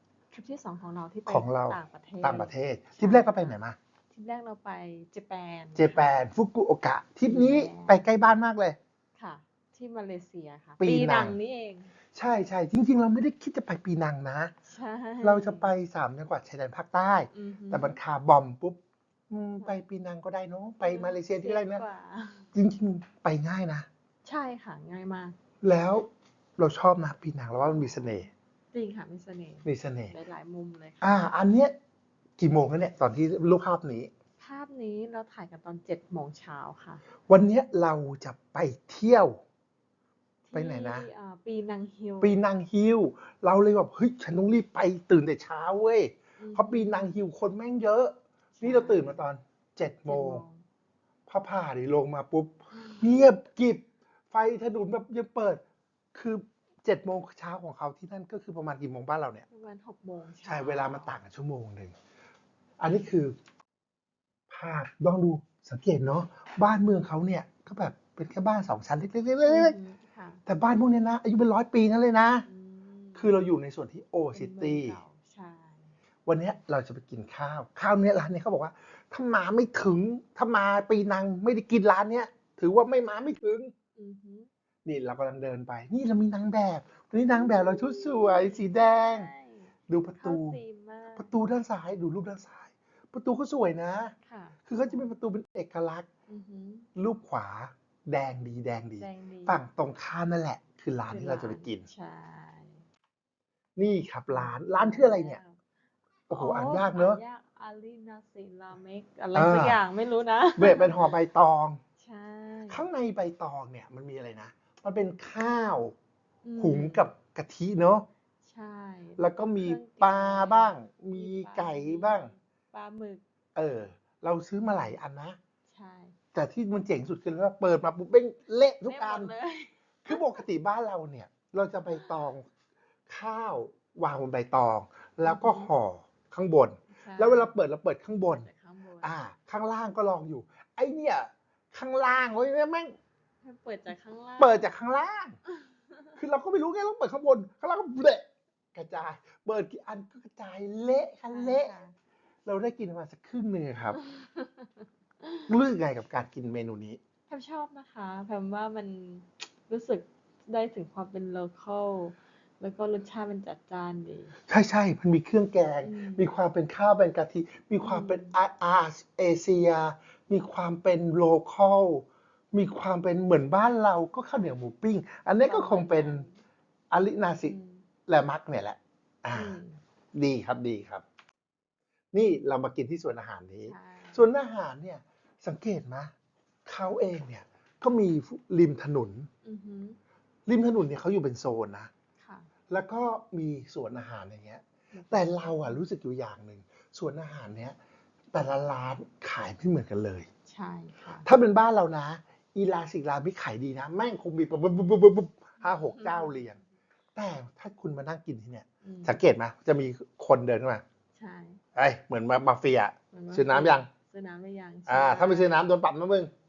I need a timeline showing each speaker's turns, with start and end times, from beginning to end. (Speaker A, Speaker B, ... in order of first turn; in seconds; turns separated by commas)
Speaker A: 0.3-3.5, Speaker B: 1.3-3.8, Speaker A: 4.1-6.2, Speaker B: 5.8-8.8, Speaker A: 7.2-8.1, Speaker A: 9.2-11.9, Speaker B: 10.8-11.3, Speaker B: 12.1-14.5, Speaker A: 14.6-15.7, Speaker B: 15.2-21.8, Speaker A: 17.3-18.0, Speaker A: 20.8-22.5, Speaker B: 22.5-23.9, Speaker A: 24.2-25.4, Speaker B: 25.6-26.1, Speaker B: 26.6-28.3, Speaker A: 27.6-31.3, Speaker B: 29.6-30.1, Speaker B: 31.0-31.7, Speaker B: 32.4-34.1, Speaker A: 34.4-37.0, Speaker B: 37.3-39.4, Speaker A: 40.5-42.4, Speaker B: 40.5-41.1, Speaker B: 42.2-50.4, Speaker A: 46.4-47.1, Speaker A: 48.6-49.2, Speaker A: 50.1-50.6, Speaker B: 51.3-55.6, Speaker A: 52.7-53.1, Speaker B: 56.1-59.5, Speaker A: 59.5-61.1, Speaker B: 60.4-61.9, Speaker B: 62.8-63.4, Speaker B: 64.5-69.8, Speaker A: 69.4-70.4, Speaker B: 70.5-72.5, Speaker A: 72.4-73.4, Speaker B: 73.2-75.0, Speaker A: 74.3-75.9, Speaker B: 76.2-83.7, Speaker A: 84.0-84.5, Speaker B: 84.8-89.3, Speaker A: 87.3-91.3, Speaker B: 89.9-90.6, Speaker B: 91.2-94.1, Speaker A: 94.2-95.1, Speaker B: 94.7-96.0, Speaker A: 96.3-96.9, Speaker B: 96.9-101.9, Speaker A: 99.0-99.6, Speaker A: 101.1-102.8, Speaker B: 103.8-105.4, Speaker A: 104.3-105.6, Speaker B: 106.3-107.2, Speaker A: 106.3-111.1, Speaker B: 109.3-109.8, Speaker B: 110.6-111.8, Speaker A: 112.0-112.8, Speaker B: 112.7-116.0, Speaker A: 116.4-117.1, Speaker B: 116.6-118.1, Speaker A: 118.4-123.2, Speaker B: 119.2-122.3, Speaker B: 123.5-125.4, Speaker A: 125.7-126.2, Speaker B: 126.3-129.3, Speaker A: 128.8-130.4, Speaker B: 130.0-132.5, Speaker B: 133.1-138.5, Speaker A: 135.2-135.7, Speaker A: 137.0-137.5, Speaker A: 138.3-139.1, Speaker B: 139.0-142.9, Speaker A: 143.4-144.6, Speaker B: 144.4-145.4, Speaker A: 145.7-146.1, Speaker B: 146.1-151.7, Speaker A: 151.3-151.9, Speaker B: 152.4-154.0, Speaker A: 153.9-155.5, Speaker B: 155.5-157.0, Speaker A: 157.3-164.3, Speaker B: 164.5-176.2, Speaker A: 165.8-166.3, Speaker A: 167.8-168.4, Speaker A: 175.4-176.4, Speaker B: 176.9-177.6, Speaker A: 177.4-177.8, Speaker B: 178.1-179.6, Speaker A: 179.3-179.8, Speaker B: 180.1-181.0, Speaker B: 182.1-186.1, Speaker A: 183.7-184.2, Speaker B: 186.7-189.3, Speaker A: 189.4-190.0, Speaker B: 190.5-191.9, Speaker A: 192.2-192.5, Speaker B: 192.7-197.8, Speaker A: 194.9-195.8, Speaker B: 198.3-200.3, Speaker A: 200.4-201.3, Speaker B: 201.2-206.6, Speaker A: 205.6-206.5, Speaker B: 207.1-210.8, Speaker A: 208.8-209.2, Speaker A: 211.1-211.6, Speaker B: 211.7-213.9, Speaker A: 213.1-215.7, Speaker B: 214.9-216.3